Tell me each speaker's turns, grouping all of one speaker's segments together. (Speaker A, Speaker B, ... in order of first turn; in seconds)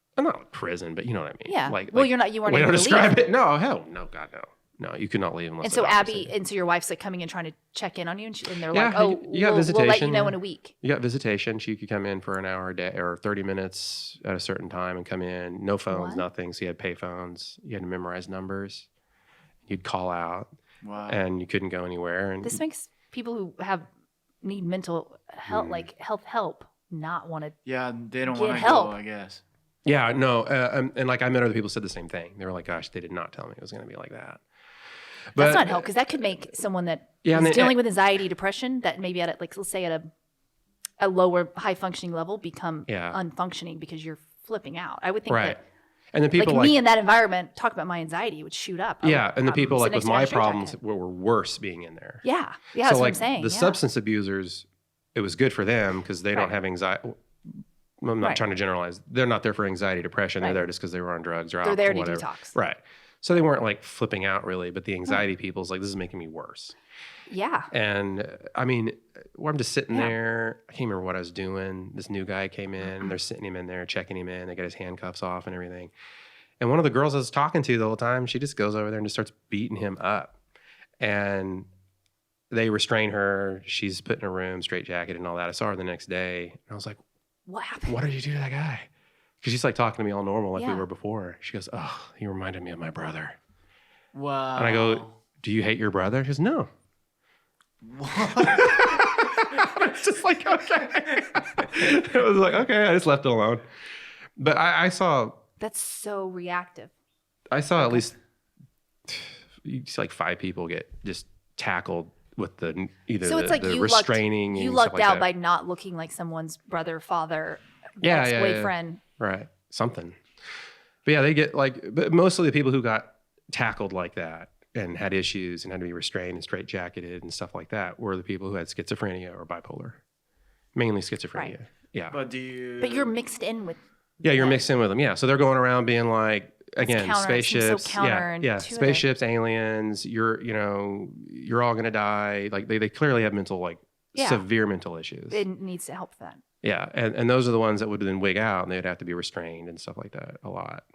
Speaker A: 0.2-6.3, 8.7-18.9, 19.7-20.5, 21.1-22.6, 25.5-25.8, 29.8-34.4, 35.3-35.9, 37.2-37.8, 42.9-43.2, 45.3-45.6, 46.1-46.8, 49.0-52.2, 52.8-66.7, 67.7-75.9, 76.6-80.3, 81.0-81.7, 82.5-87.0, 87.9-88.9, 89.4-93.3, 94.5-96.7, 98.3-103.6, 104.4-105.4, 107.5-108.2, 109.1-115.3, 118.0-120.2, 121.0-130.0, 130.7-132.2, 134.2-145.4, 146.6-150.8
Speaker B: 1.4-3.2, 5.6-10.7, 15.9-16.2, 22.4-23.9, 24.4-27.6, 28.2-29.0, 35.4-40.1, 41.0-45.6, 46.3-50.8, 52.2-53.8, 61.6-62.5, 67.3-67.7, 87.5-88.0, 90.5-90.9, 105.6-106.9, 107.8-108.1, 113.2-119.0, 132.8-134.6, 136.8-139.1, 144.1-144.4, 145.3-146.4
Speaker C: 20.8-21.2, 27.6-29.4, 94.1-95.2, 97.8-98.9, 132.1-133.1